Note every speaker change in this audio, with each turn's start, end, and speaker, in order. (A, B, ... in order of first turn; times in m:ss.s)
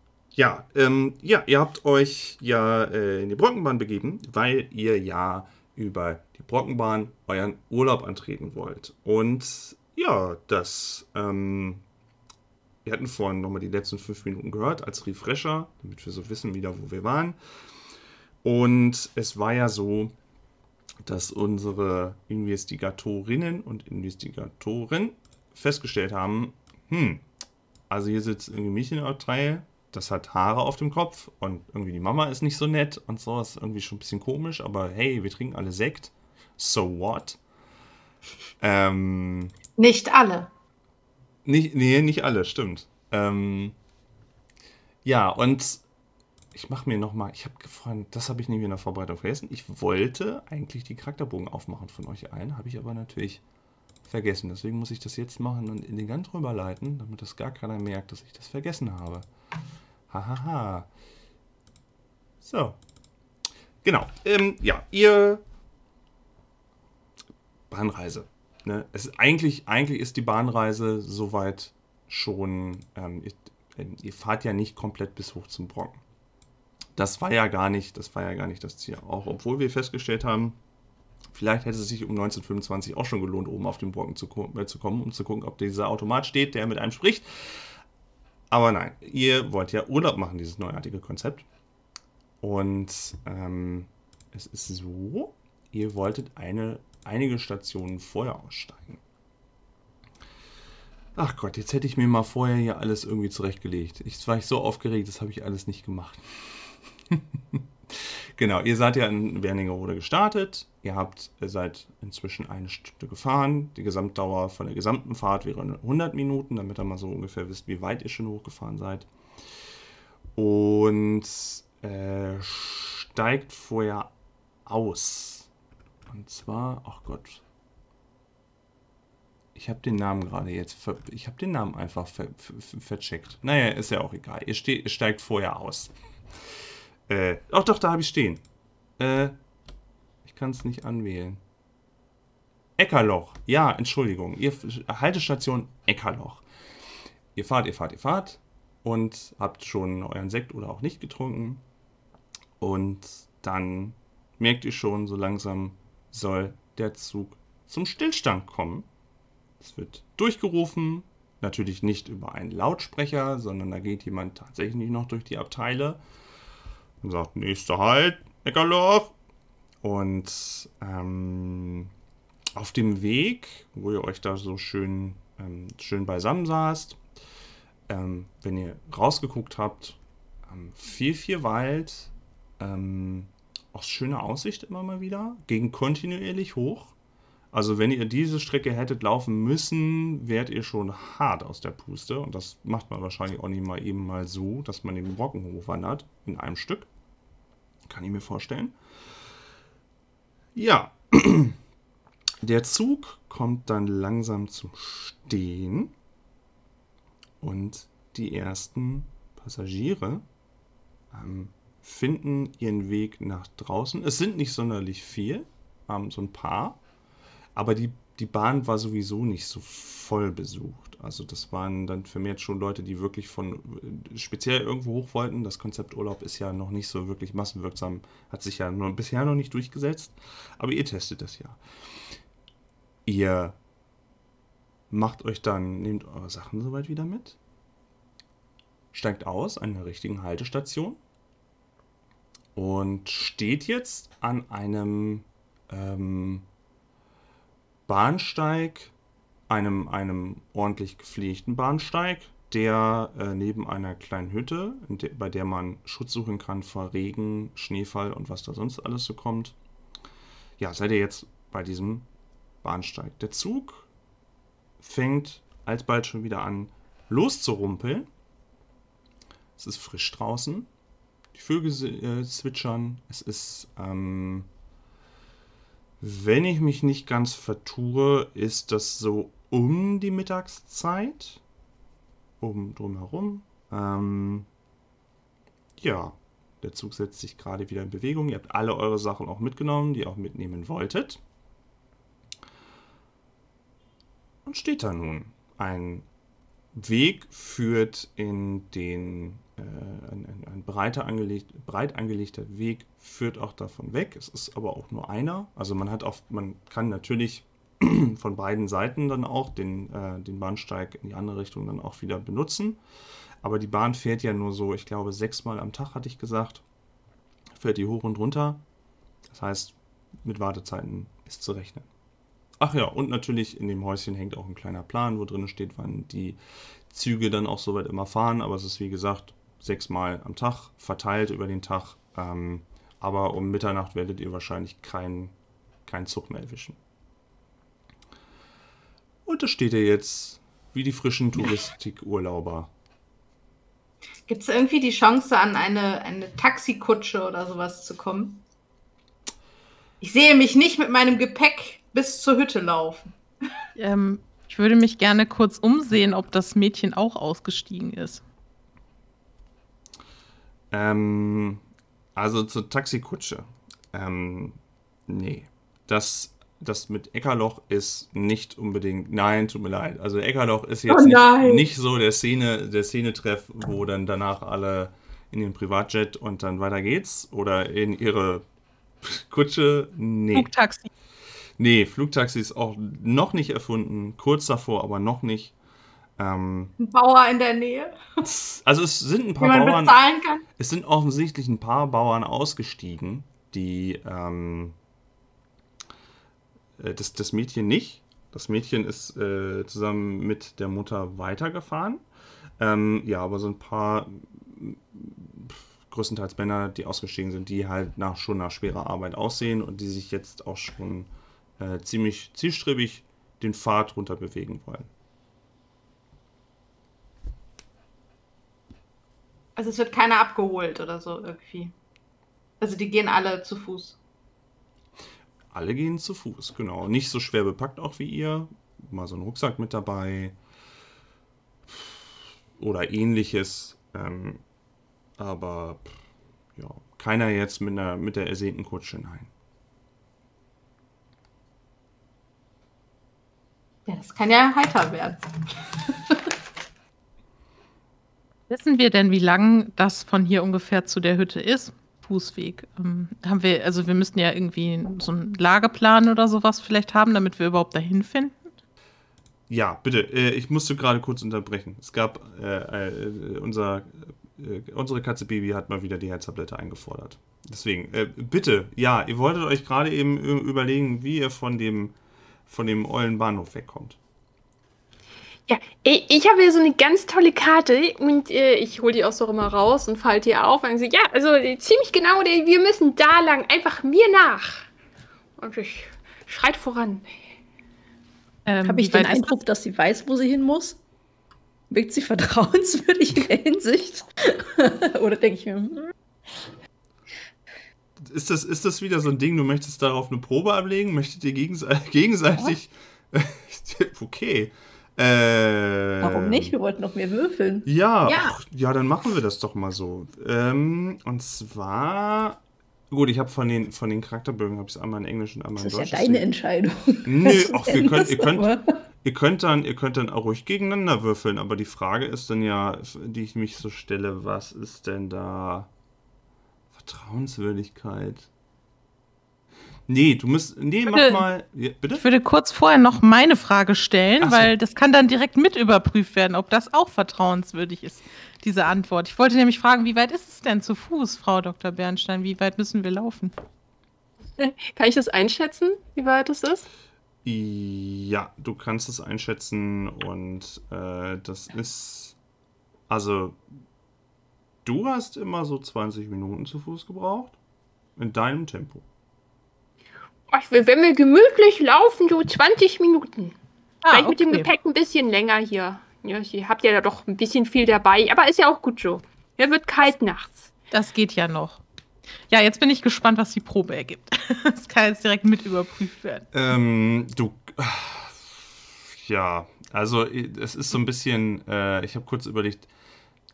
0:00.4-0:11.8 A
0:12.8-0:17.4 A
0:18.4-0:20.1 A
0:21.0-0:27.2 A
0:27.9-0:37.4 A
0:38.6-0:39.5 A
0:39.8-0:40.5 B
0:41.4-0:43.8 A
0:45.0-0:45.8 A
0:46.5-0:53.4 A
0:54.0-0:59.2 A
1:00.1-1:00.9 A
1:02.4-1:02.8 A
1:03.8-1:05.4 A
1:07.7-1:16.0 A
1:17.0-1:20.6 A
1:21.3-1:27.7 A
1:28.5-1:31.4 A
1:32.4-1:39.0 A
1:41.2-1:59.1 A
2:00.4-2:04.1 A
2:04.6-2:05.5 A
2:06.1-2:07.4 A
2:09.5-2:15.9 A
2:17.1-2:18.4 A
2:19.0-2:19.3 A
2:20.2-2:21.4 A
2:22.8-2:26.4 A
2:27.3-2:31.6 A
2:32.6-2:38.9 A
2:39.6-2:46.0 A
2:47.0-2:49.1 A
2:49.8-2:51.9 A
2:52.6-2:57.0 A
2:57.9-3:06.9 A
3:07.5-3:16.9 A
3:17.9-3:18.8 A
3:20.5-3:21.6 A
3:22.4-3:25.9 A
3:27.4-3:30.2 A
3:31.1-3:36.8 A
3:37.6-3:51.6 A
3:53.0-3:53.6 A
3:54.9-3:57.4 A
3:58.9-4:01.0 A
4:02.5-4:06.4 A
4:07.9-4:08.9 A
4:09.5-4:19.6 A
4:20.6-4:22.1 A
4:22.6-4:23.9 A
4:24.8-4:28.1 A
4:29.6-4:30.7 A
4:31.3-4:34.5 A
4:36.0-4:41.4 A
4:42.4-4:44.5 A
4:45.8-4:51.2 A
4:54.4-4:56.0 A
4:56.7-5:12.8 A
5:13.4-5:16.6 A
5:17.6-5:18.6 A
5:19.3-5:21.9 A
5:22.6-5:35.3 A
5:35.8-5:36.8 A
5:39.2-5:42.7 A
5:44.3-5:48.4 B
5:50.0-5:53.1 B
5:53.8-5:58.2 C
6:00.7-6:01.6 A
6:02.2-6:18.4 A
6:10.9-6:11.6 B
6:19.0-6:20.5 A
6:20.3-6:20.9 C
6:21.6-6:25.5 A
6:26.2-6:26.7 A
6:26.8-6:28.0 B
6:28.2-6:30.0 A
6:29.4-6:30.4 B
6:30.6-6:34.8 A
6:36.8-6:42.0 A
6:42.6-6:54.9 A
6:59.6-7:01.7 B
7:02.6-7:04.0 B
7:05.5-7:10.4 A
7:11.7-7:14.4 A
7:15.2-7:16.0 A
7:16.6-7:19.3 A
7:23.9-7:25.2 B
7:25.7-7:26.3 B
7:28.5-7:38.4 C
7:39.5-7:51.9 A
7:52.5-7:54.0 A
7:55.5-8:04.7 D
8:05.4-8:07.2 D
8:08.4-8:09.4 C
8:08.6-8:10.8 E
8:11.7-8:15.9 E
8:18.0-8:26.5 A
8:26.0-8:27.7 E
8:27.6-8:32.4 A
8:28.0-8:28.3 B
8:32.9-8:36.3 A
8:35.6-8:38.6 E
8:37.0-8:45.7 A
8:46.7-8:48.3 A
8:49.9-8:52.0 A
8:50.9-8:51.3 C
8:52.0-9:03.3 C
8:54.2-8:54.5 A
9:04.4-9:06.7 D
9:07.2-9:12.2 A
9:12.9-9:13.4 A
9:14.6-9:17.4 A
9:18.0-9:18.8 A
9:20.3-9:23.4 D
9:23.8-9:24.5 C
9:23.9-9:30.5 D
9:30.7-9:31.6 C
9:32.3-9:36.3 C
9:36.3-9:42.7 A